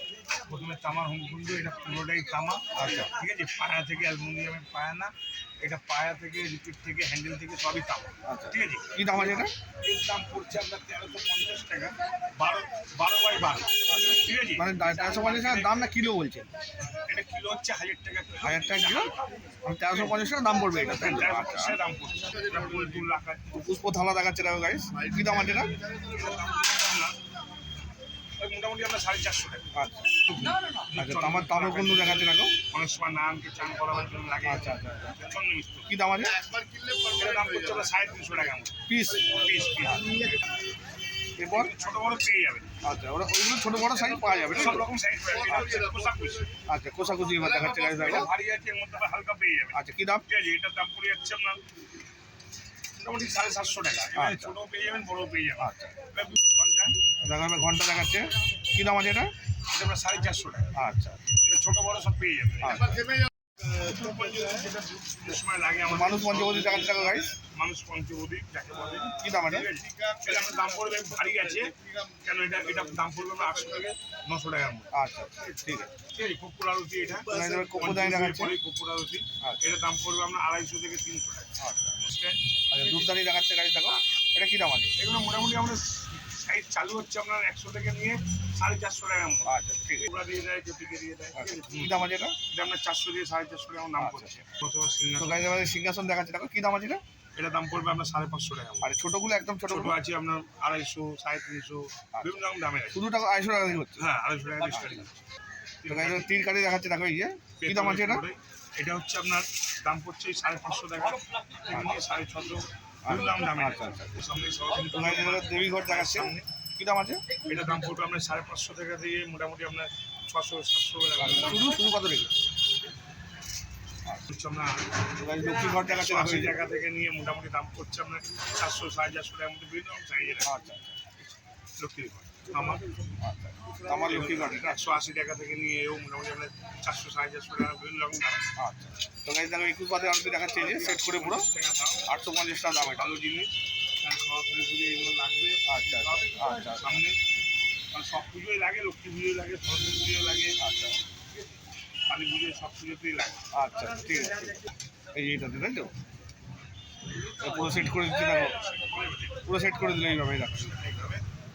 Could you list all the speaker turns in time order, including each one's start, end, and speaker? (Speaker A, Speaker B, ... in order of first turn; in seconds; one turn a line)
Speaker A: 0.5-15.7
Speaker B: 2.8-3.1
Speaker B: 8.2-9.5
Speaker B: 13.9-16.5
Speaker A: 17.0-19.2
Speaker B: 18.4-19.1
Speaker B: 19.6-21.8
Speaker A: 19.9-20.2
Speaker A: 20.9-23.5
Speaker B: 23.5-25.8
Speaker A: 25.9-27.2
Speaker A: 28.4-29.7
Speaker B: 29.7-30.1
Speaker A: 30.3-35.9
Speaker B: 31.0-32.6
Speaker B: 34.4-35.2
Speaker B: 35.9-36.4
Speaker A: 37.0-38.8
Speaker B: 38.9-39.3
Speaker A: 39.3-40.4
Speaker B: 39.9-40.2
Speaker B: 41.4-41.7
Speaker A: 41.5-42.7
Speaker B: 42.8-44.9
Speaker A: 44.5-46.5
Speaker B: 46.6-48.3
Speaker A: 47.7-51.6
Speaker B: 49.7-50.2
Speaker A: 53.0-57.0
Speaker B: 54.1-54.5
Speaker B: 55.6-55.9
Speaker B: 57.2-59.3
Speaker A: 59.7-60.7
Speaker B: 60.7-61.3
Speaker A: 61.3-63.0
Speaker B: 62.6-63.0
Speaker A: 63.6-74.9
Speaker B: 65.8-67.3
Speaker B: 69.2-69.7
Speaker B: 74.9-75.9
Speaker A: 76.0-83.0
Speaker B: 77.3-78.6
Speaker B: 81.6-81.9
Speaker B: 82.7-84.9
Speaker A: 85.0-95.5
Speaker B: 89.4-90.1
Speaker B: 91.3-92.4
Speaker B: 94.0-94.3
Speaker B: 95.2-97.0
Speaker A: 97.3-98.9
Speaker B: 98.8-100.0
Speaker A: 99.7-103.0
Speaker B: 102.1-102.4
Speaker B: 102.9-104.0
Speaker A: 104.0-105.1
Speaker B: 104.6-105.0
Speaker A: 105.8-106.3
Speaker B: 105.9-108.2
Speaker A: 107.6-116.5
Speaker B: 113.0-114.1
Speaker B: 114.9-117.3
Speaker A: 117.4-121.7
Speaker B: 121.2-122.4
Speaker A: 124.3-124.9
Speaker B: 125.2-126.6
Speaker A: 125.4-130.5
Speaker B: 130.4-131.2
Speaker A: 131.8-132.8
Speaker B: 133.2-134.8
Speaker A: 133.8-138.5
Speaker B: 138.6-141.5
Speaker A: 140.5-142.2
Speaker B: 142.1-143.1
Speaker A: 142.9-147.2
Speaker B: 145.7-147.0
Speaker A: 147.9-150.6
Speaker B: 150.6-151.0
Speaker A: 152.1-153.5
Speaker B: 153.5-155.9
Speaker B: 157.4-158.6
Speaker A: 157.4-159.4
Speaker B: 159.4-160.8
Speaker A: 160.7-161.2